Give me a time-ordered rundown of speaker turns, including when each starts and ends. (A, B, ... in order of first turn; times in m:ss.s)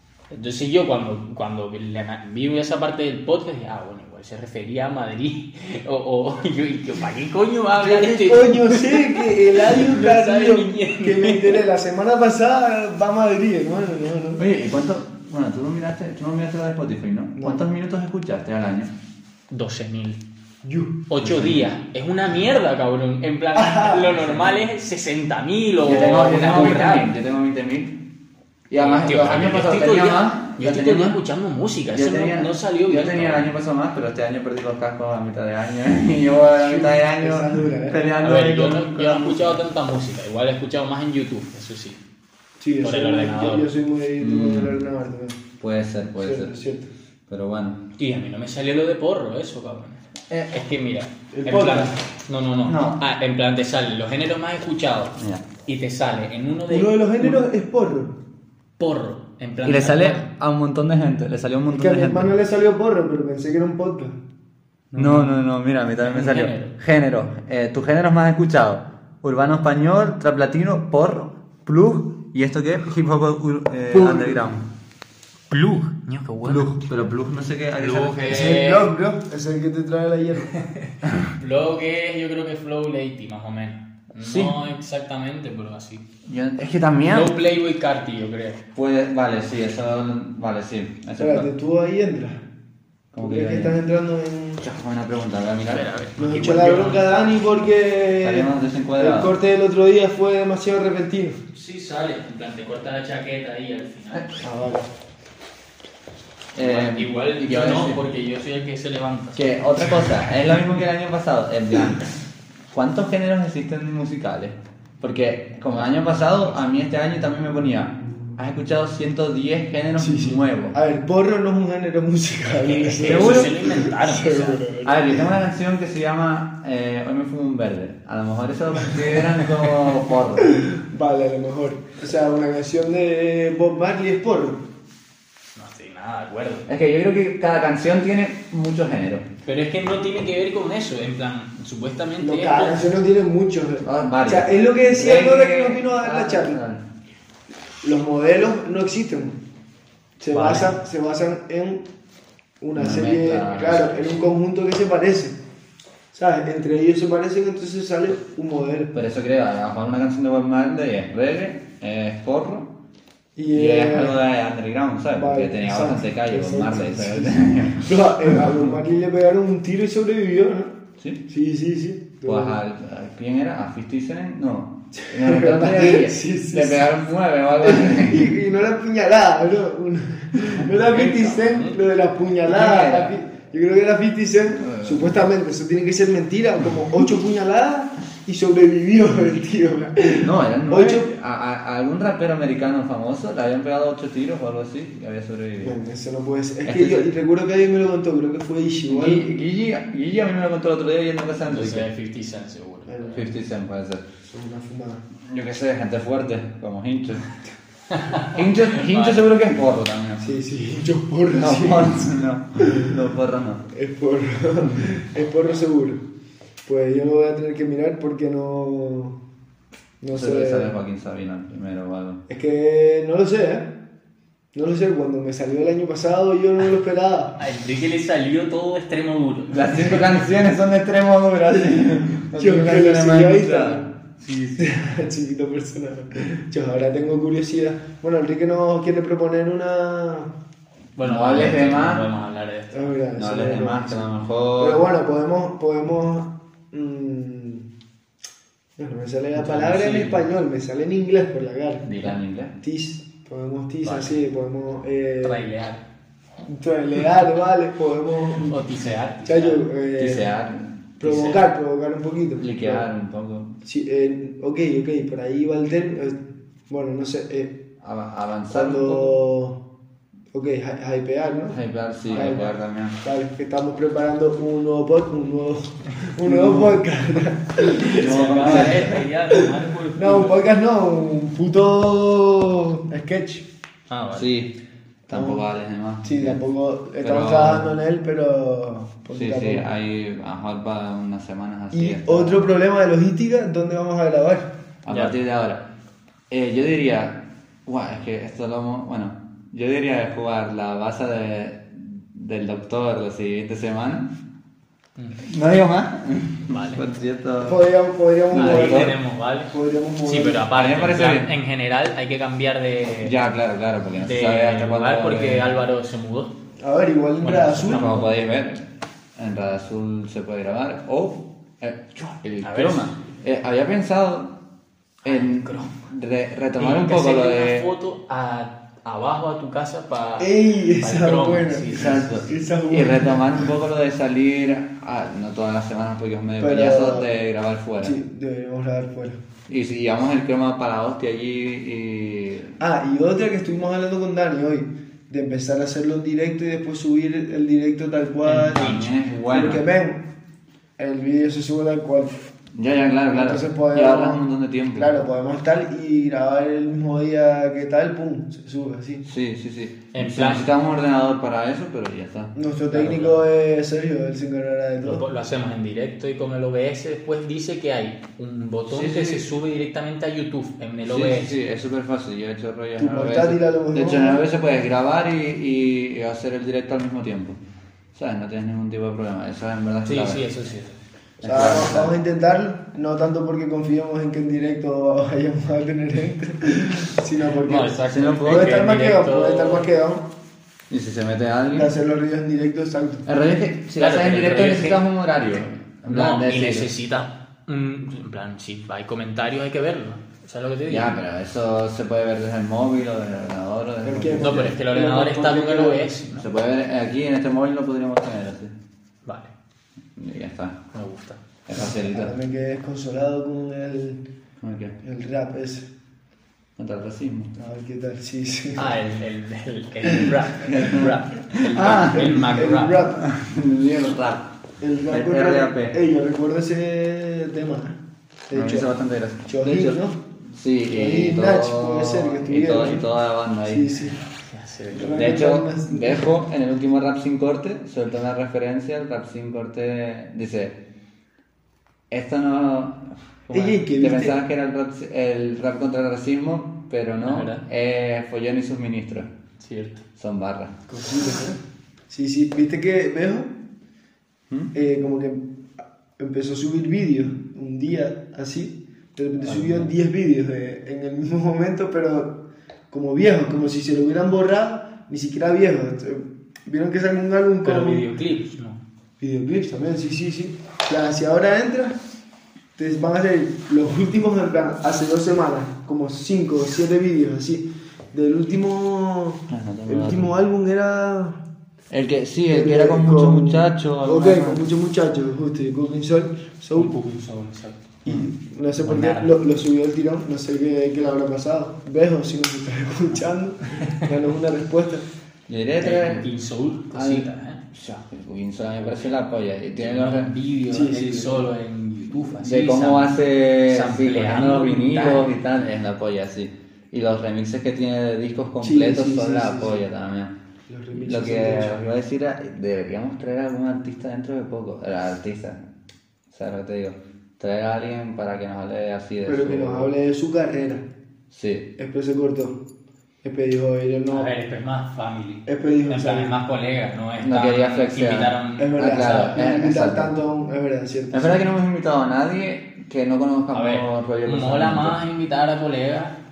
0:00.3-0:11.6 A
0:07.8-0:14.4 B
0:14.4-0:18.9 C
0:17.4-0:17.6 B
0:19.5-0:20.2 A
0:20.6-0:21.0 B
0:21.1-0:27.1 A
0:21.2-0:21.7 C
0:23.5-0:24.2 B
0:24.3-0:24.6 C
0:25.8-0:28.0 C
0:28.7-0:31.2 C
0:28.8-0:33.5 A
0:31.9-0:39.6 C
0:36.5-0:38.0 B
0:38.2-0:42.0 A
0:42.6-0:45.4 B
0:42.8-0:43.7 A
0:44.2-0:44.7 C
0:45.6-0:46.5 C
0:46.2-0:46.9 B
0:47.3-0:47.8 C
0:48.0-0:57.4 A
0:51.3-0:51.9 B
0:52.6-0:53.0 C
0:55.2-0:55.4 C
0:56.7-0:58.2 B
0:58.8-1:00.3 A
0:59.6-1:02.3 C
1:01.7-1:04.2 B
1:04.9-1:05.4 A
1:05.0-1:14.6 C
1:06.0-1:06.7 A
1:13.9-1:14.5 B
1:15.5-1:16.8 A
1:16.4-1:18.6 C
1:17.8-1:18.9 A
1:18.3-1:20.5 B
1:20.5-1:26.0 A
1:24.2-1:24.5 C
1:26.2-1:27.3 C
1:27.1-1:28.6 A
1:28.7-1:31.5 C
1:31.2-1:32.4 B
1:33.1-1:33.8 C
1:33.2-1:34.6 B
1:34.6-1:35.9 C
1:35.7-1:37.4 A
1:36.2-1:41.4 B
1:38.2-1:39.4 C
1:41.5-1:44.3 A
1:44.4-1:44.8 B
1:46.5-1:48.0 C
1:46.6-1:49.9 A
1:49.4-1:52.1 C
1:52.7-2:00.8 C
2:00.0-2:05.3 B
2:02.5-2:04.6 A
2:03.0-2:03.5 C
2:04.8-2:10.6 C
2:09.3-2:09.7 B
2:10.4-2:14.6 B
2:15.6-2:16.7 A
2:16.6-2:19.2 C
2:19.4-2:22.9 A
2:22.2-2:26.6 B
2:23.8-2:26.8 C
2:27.8-2:29.4 B
2:30.2-2:31.8 B
2:30.3-2:30.8 A
2:32.6-2:35.4 B
2:32.7-2:34.2 C
2:36.1-2:38.9 B
2:38.9-2:42.7 C
2:43.4-2:44.2 B
2:43.5-2:48.7 C
2:45.1-2:50.7 B
2:51.3-2:52.6 B
2:52.2-2:58.3 C
2:55.0-2:56.9 B
2:57.6-3:11.1 B
3:00.7-3:01.8 A
3:02.4-3:03.2 C
3:04.6-3:05.1 C
3:10.2-3:15.8 C
3:15.6-3:19.3 B
3:16.6-3:17.1 C
3:18.9-3:21.9 C
3:21.5-3:23.2 A
3:22.9-3:23.3 B
3:23.1-3:24.0 C
3:24.2-3:25.0 B
3:25.3-3:27.2 C
3:27.9-3:29.2 A
3:28.2-3:30.3 C
3:30.2-3:32.9 B
3:31.3-3:33.6 C
3:33.7-3:36.0 B
3:36.6-3:39.2 B
3:40.0-3:40.7 B
3:40.1-3:42.2 C
3:42.3-3:43.7 B
3:44.5-3:47.4 B
3:47.4-3:50.0 A
3:49.5-3:53.8 C
3:52.3-3:53.9 B
3:54.2-3:54.7 A
3:54.6-4:00.3 B
4:01.0-4:02.9 A
4:01.0-4:02.1 C
4:02.7-4:07.7 B
4:03.2-4:04.8 C
4:08.8-4:11.9 B
4:09.3-4:10.2 A
4:11.8-4:12.2 A
4:11.9-4:12.5 C
4:12.6-4:15.4 B
4:13.8-4:14.2 A
4:15.2-4:15.8 A
4:16.4-4:18.6 B
4:18.4-4:19.6 A
4:19.2-4:20.3 B
4:20.0-4:20.8 C
4:21.0-4:22.8 B
4:21.0-4:21.4 A
4:22.4-4:23.5 C
4:23.6-4:27.6 B
4:27.8-4:29.2 C
4:28.5-4:29.6 B
4:30.3-4:31.6 B
4:31.5-4:33.0 C
4:32.1-4:32.4 A
4:32.1-4:43.4 B
4:36.2-4:36.8 C
4:37.8-4:40.4 A
4:37.9-4:39.0 C
4:43.9-4:44.3 A
4:44.1-4:44.5 C
4:45.1-4:45.4 B
4:45.1-4:46.4 C
4:46.0-4:49.7 B
4:47.0-4:47.7 C
4:49.1-4:52.5 C
4:51.7-4:54.5 B
4:54.8-4:55.6 C
4:54.9-4:55.1 A
4:56.3-5:04.1 C
5:05.2-5:07.6 C
5:06.5-5:06.8 A
5:07.4-5:09.0 B
5:08.3-5:09.0 C
5:08.3-5:13.1 A
5:09.5-5:10.5 B
5:10.5-5:11.3 C
5:13.0-5:15.5 C
5:14.0-5:16.3 A
5:16.6-5:17.9 B
5:17.2-5:18.1 A
5:17.6-5:24.4 C
5:22.4-5:22.9 A
5:25.0-5:25.8 A
5:25.0-5:27.7 C
5:26.6-5:32.2 A
5:30.2-5:33.5 B
5:31.7-5:38.0 C
5:36.4-5:37.1 B
5:37.8-5:39.2 B
5:39.5-5:42.6 C
5:42.6-5:50.0 B
5:48.2-5:48.9 A
5:48.3-5:49.6 C
5:50.8-5:52.3 B
5:52.6-5:54.9 C
5:53.1-5:59.0 B
5:59.0-6:02.3 C
5:59.9-6:00.5 A
6:02.3-6:05.0 B
6:02.7-6:03.2 A
6:04.8-6:11.4 A
6:08.7-6:09.2 C
6:10.8-6:17.4 C
6:12.8-6:14.2 B
6:17.9-6:20.2 C
6:19.8-6:20.8 A
6:21.2-6:22.0 C
6:21.2-6:30.1 B
6:27.4-6:29.7 A
6:27.9-6:28.6 C
6:30.7-6:31.7 C
6:31.5-6:33.0 B
6:33.0-6:36.7 C
6:33.8-6:34.8 A
6:35.9-6:41.0 A
6:40.7-6:44.5 C
6:43.8-6:45.9 B
6:44.2-6:46.3 A
6:46.1-6:48.5 C
6:49.0-6:49.3 A
6:50.0-6:50.6 C
6:50.7-6:51.2 A
6:51.4-6:52.1 C
6:51.6-6:54.0 B
6:54.4-6:54.8 C
6:54.8-6:55.7 B
6:56.6-6:57.3 C
6:57.4-6:58.7 B
6:58.6-7:02.8 A
7:00.4-7:02.2 C
7:01.7-7:03.0 B
7:02.9-7:04.3 C
7:04.6-7:08.7 B
7:04.9-7:05.8 C
7:08.3-7:13.8 C
7:09.3-7:10.0 B
7:10.7-7:12.9 B
7:13.4-7:14.0 B
7:14.3-7:15.0 A
7:14.7-7:16.1 B
7:14.8-7:20.6 C
7:21.9-7:29.1 C
7:23.3-7:24.2 B
7:27.0-7:27.4 A
7:29.4-7:29.8 A
7:30.0-7:30.6 C
7:30.7-7:33.3 B
7:34.5-7:35.2 B
7:36.0-7:47.8 B
7:39.2-7:39.7 A
7:47.4-7:48.6 A
7:49.0-7:51.8 B
7:52.6-8:01.2 B
7:59.3-8:00.1 C
8:01.7-8:04.4 C
8:02.3-8:06.7 B
8:06.5-8:07.7 A
8:07.8-8:14.8 B
8:08.6-8:09.2 A
8:13.6-8:13.8 A
8:15.3-8:16.0 C
8:15.6-8:17.4 A
8:16.7-8:20.1 C
8:19.6-8:25.1 A
8:20.5-8:21.2 B
8:22.0-8:30.1 C
8:28.4-8:29.6 B
8:30.5-8:31.6 B
8:30.7-8:35.4 C
8:36.1-8:39.7 C
8:39.0-8:40.6 B
8:41.1-8:41.5 C
8:41.6-8:42.4 B
8:43.0-8:44.1 B
8:43.9-8:48.6 A
8:45.3-8:46.2 B
8:47.0-8:49.9 C
8:48.4-8:51.2 B
8:50.9-8:54.8 C
8:53.3-8:55.9 A